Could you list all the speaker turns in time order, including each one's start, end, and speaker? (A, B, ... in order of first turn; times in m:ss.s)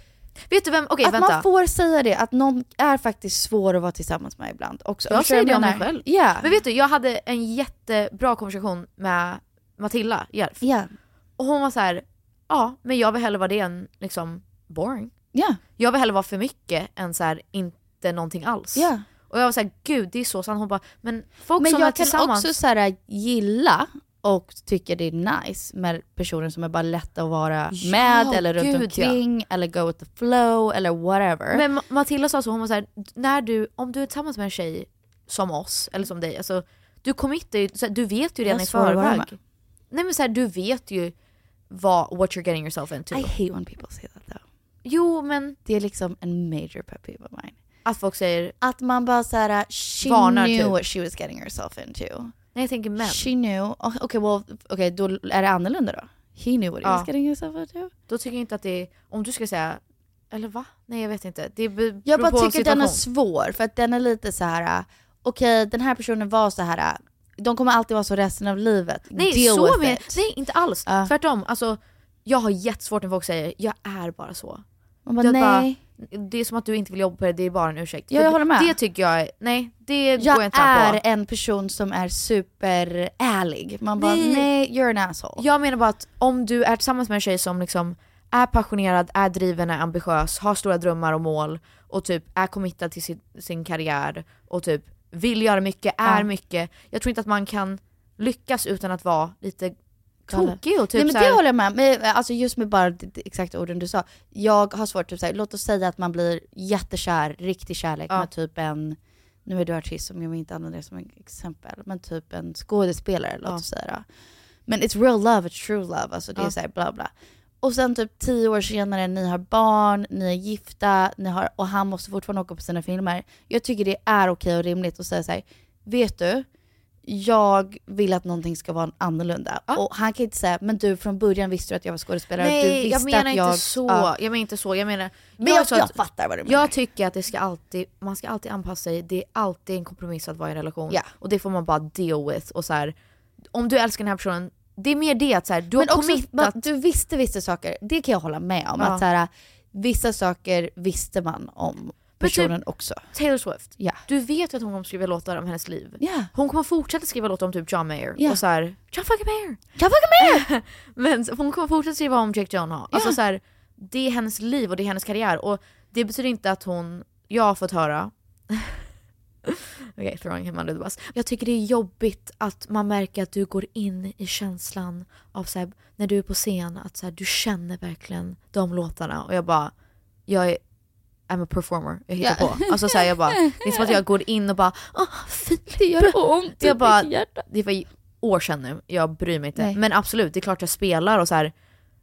0:00.5-0:01.4 A
0:01.0-0:06.5 B
0:05.1-0:10.6 A
0:10.6-0:10.9 B
0:11.4-0:15.1 A
0:15.3-0:15.6 B
0:15.8-0:22.5 A
0:18.7-0:19.0 B
0:21.6-0:31.6 B
0:27.7-0:29.2 A
0:31.5-0:39.4 A
0:38.4-0:39.3 B
0:39.9-0:41.1 A
0:41.7-0:43.3 A
0:43.1-0:44.4 B
0:44.8-0:45.6 A
0:45.6-0:47.6 B
0:47.8-0:48.5 A
0:48.6-0:52.3 B
0:50.0-0:50.8 A
0:52.5-0:53.2 A
0:53.0-0:57.9 B
0:56.8-0:57.1 A
0:58.1-1:03.0 A
1:02.0-1:10.2 B
1:09.1-1:14.6 A
1:10.8-1:11.1 B
1:15.0-1:15.8 B
1:15.2-1:21.0 A
1:18.1-1:18.8 B
1:20.2-1:25.4 B
1:24.0-1:24.5 A
1:25.4-1:39.7 A
1:40.3-1:41.4 A
1:40.3-1:54.0 B
1:54.7-2:06.5 B
2:07.0-2:14.1 B
2:12.4-2:22.9 A
2:15.4-2:16.7 B
2:23.5-2:26.6 A
2:25.7-2:33.0 B
2:28.8-2:29.0 A
2:32.2-2:32.5 A
2:33.1-2:39.6 A
2:36.0-2:36.3 B
2:39.8-2:40.5 B
2:40.2-2:48.8 A
2:42.9-2:43.2 B
2:49.5-2:59.7 A
3:00.3-3:00.6 A
3:01.3-3:11.5 A
3:02.2-3:04.0 B
3:05.8-3:07.5 B